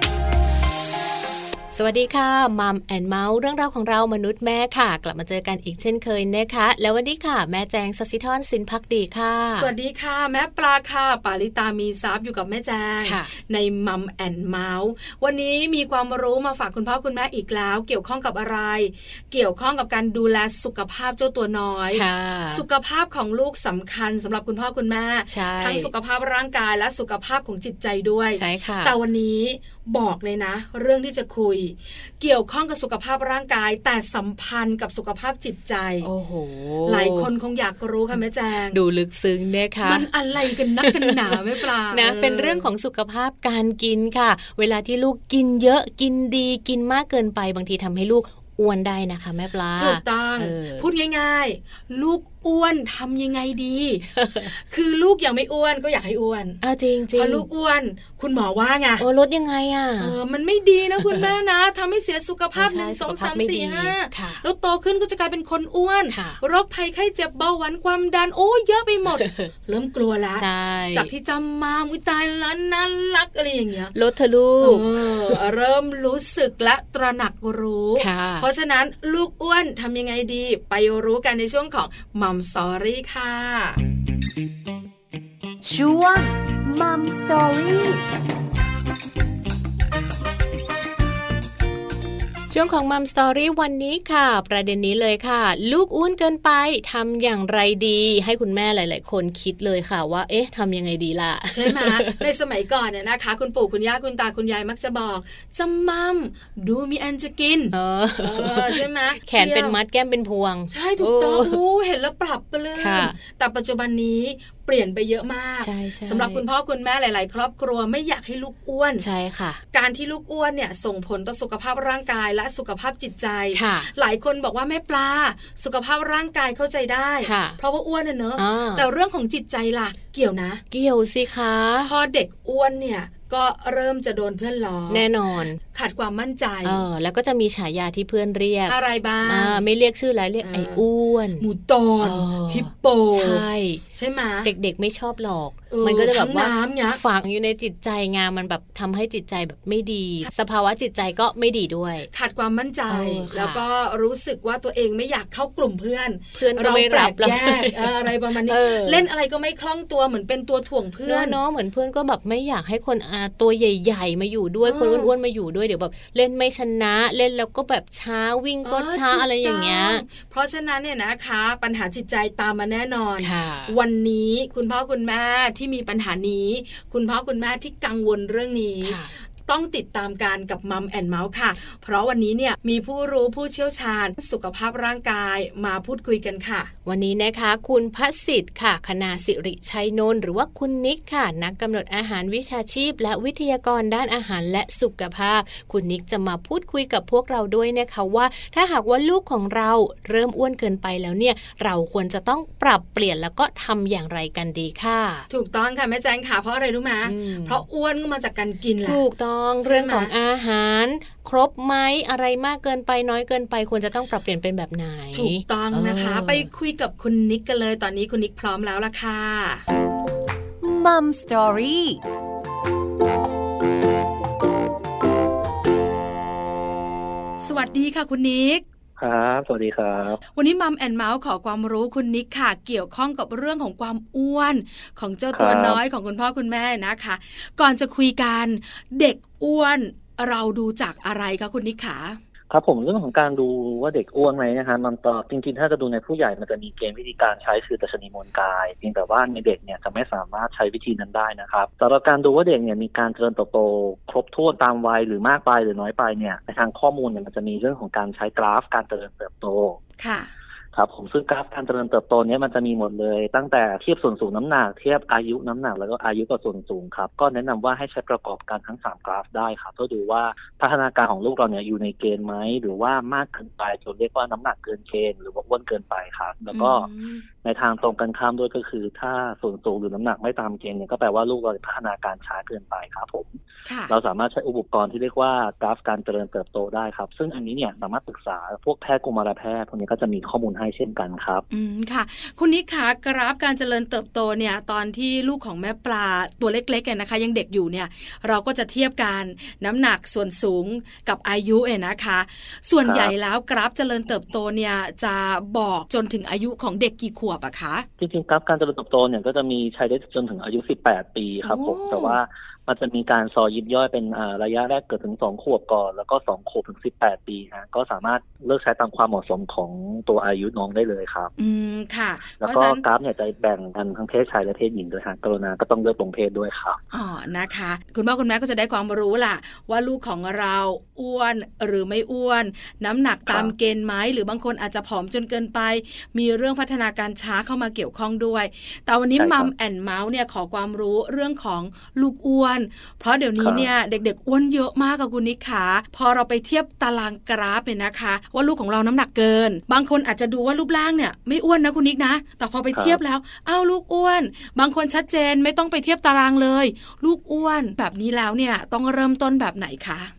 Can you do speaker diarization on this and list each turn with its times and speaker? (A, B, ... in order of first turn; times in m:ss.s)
0:01.7-0:09.7 A
0:09.5-0:36.1 B
0:13.0-0:13.3 A
0:21.9-0:22.6 A
0:25.3-0:25.9 A
0:28.4-0:29.0 A
0:36.0-0:37.3 A
0:36.8-0:38.8 B
0:38.7-0:50.9 A
0:39.8-0:42.7 B
0:49.8-0:56.6 B
0:54.2-0:54.5 A
0:56.6-0:57.4 A
0:57.1-0:59.0 B
0:59.0-1:00.2 A
1:00.0-1:13.9 B
1:01.0-1:01.3 A
1:02.5-1:04.4 A
1:06.1-1:06.4 A
1:09.2-1:09.5 A
1:10.4-1:11.1 A
1:13.9-1:15.4 A
1:14.6-1:23.8 B
1:18.0-1:18.5 A
1:25.6-1:28.1 C
1:32.5-1:42.2 A
1:41.5-1:49.8 B
1:47.7-1:51.6 A
1:50.7-1:59.0 B
1:52.8-1:53.2 A
1:55.6-1:56.4 A
1:59.0-1:59.6 A
1:59.7-2:10.6 B
2:03.5-2:03.9 A
2:07.2-2:07.6 A
2:08.4-2:08.8 A
2:10.7-2:11.9 A
2:11.8-2:15.0 B
2:14.9-2:15.6 A
2:15.6-2:16.8 B
2:16.6-2:21.5 A
2:18.7-2:19.6 B
2:20.4-2:20.8 B
2:21.4-2:23.4 B
2:22.0-2:23.8 A
2:24.0-2:24.5 B
2:24.4-2:32.1 A
2:25.7-2:27.0 B
2:32.1-2:41.4 B
2:32.9-2:33.6 A
2:36.4-2:39.0 A
2:41.0-2:50.0 A
2:44.7-2:45.1 B
2:48.6-3:06.7 B
2:53.2-2:53.8 A
2:58.8-2:59.1 A
3:06.8-3:25.3 A
3:25.3-3:29.0 B
3:27.0-3:27.6 A
3:28.8-3:36.5 A
3:29.6-3:30.1 B
3:35.1-3:39.6 B
3:40.6-3:42.0 C
3:47.4-3:48.6 B
3:49.0-3:50.2 D
3:50.3-4:02.2 B
3:55.3-3:55.8 D
4:02.5-4:19.8 D
4:20.0-4:20.3 B
4:20.7-4:36.9 D
4:36.5-4:37.2 B
4:37.4-4:43.4 D
4:43.7-4:43.9 B
4:43.9-4:51.4 D
4:51.5-5:07.9 B
5:02.8-5:03.1 D
5:08.0-5:21.3 D
5:11.4-5:12.2 B
5:21.4-5:22.8 B
5:22.4-5:26.8 D
5:26.9-6:00.1 B
5:39.2-5:39.5 D
5:43.4-5:43.7 D
5:52.7-5:53.0 D